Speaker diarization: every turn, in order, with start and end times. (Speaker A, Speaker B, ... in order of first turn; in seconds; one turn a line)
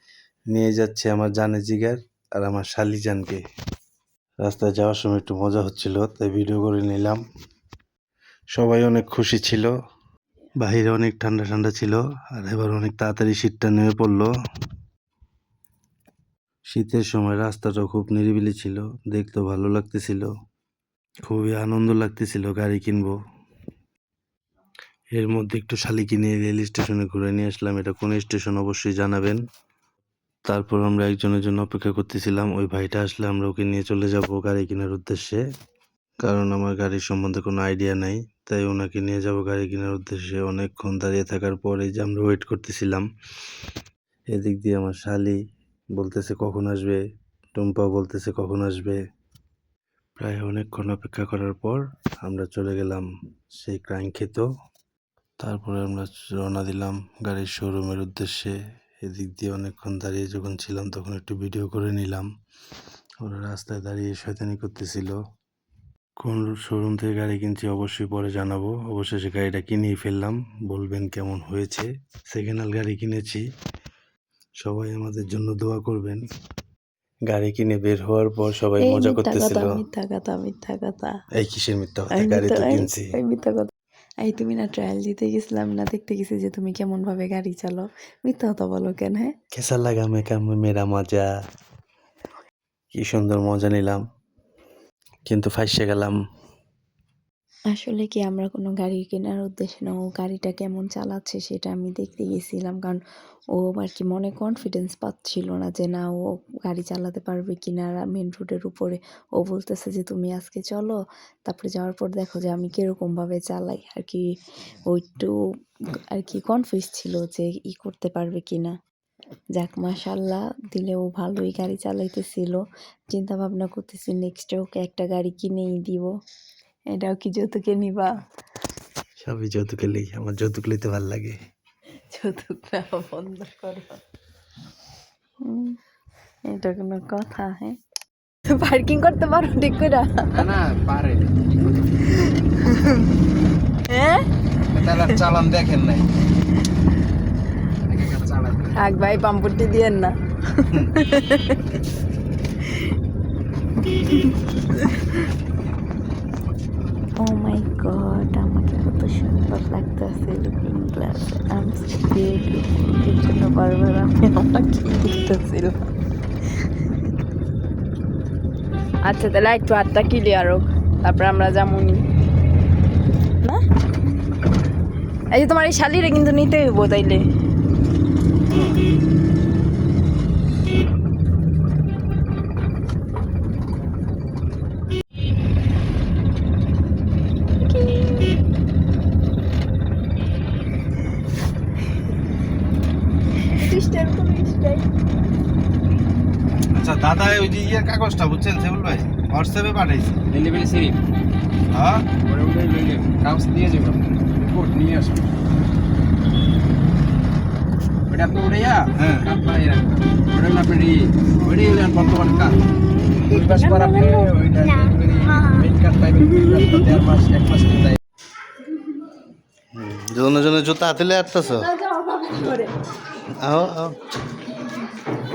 Speaker A: 0.5-3.4
Speaker A: 4.4-7.2
Speaker A: 8.6-9.7
Speaker A: 10.6-14.3
Speaker A: 16.7-20.3
Speaker A: 21.3-23.1
Speaker A: 25.1-29.4
Speaker A: 30.5-35.4
Speaker A: 36.2-43.0
Speaker A: 44.3-45.4
Speaker A: 46.0-47.0
Speaker A: 47.5-49.0
Speaker A: 50.2-53.0
Speaker A: 53.6-54.5
Speaker A: 55.4-62.3
Speaker A: 63.2-65.2
Speaker A: 66.2-73.4
Speaker A: 74.6-76.2
Speaker A: 77.3-79.8
Speaker B: 78.8-81.1
Speaker A: 81.4-83.1
Speaker B: 82.1-83.7
Speaker B: 84.2-89.3
Speaker A: 89.5-91.3
Speaker A: 92.9-94.0
Speaker A: 95.3-96.2
Speaker B: 97.7-103.0
Speaker B: 103.6-114.2
Speaker B: 114.9-115.3
Speaker B: 116.1-118.7
Speaker B: 119.6-126.1
Speaker B: 126.9-128.1
Speaker A: 129.2-131.4
Speaker B: 132.1-134.0
Speaker B: 135.4-135.8
Speaker B: 136.5-137.8
Speaker B: 138.5-140.4
Speaker C: 140.3-142.0
Speaker B: 142.1-143.1
Speaker B: 143.9-144.3
Speaker C: 144.7-146.1
Speaker C: 147.8-148.7
Speaker B: 148.7-151.6
Speaker B: 153.8-155.2
Speaker B: 157.2-165.9
Speaker B: 169.0-172.0
Speaker B: 175.3-177.2
Speaker B: 187.6-188.4
Speaker B: 193.5-194.9
Speaker A: 196.8-200.2
Speaker C: 200.3-201.0
Speaker A: 201.7-202.0
Speaker C: 202.2-205.3
Speaker C: 208.1-212.6
Speaker C: 213.2-218.0
Speaker B: 213.3-214.3
Speaker A: 219.7-221.7
Speaker B: 221.6-222.7
Speaker A: 223.2-224.0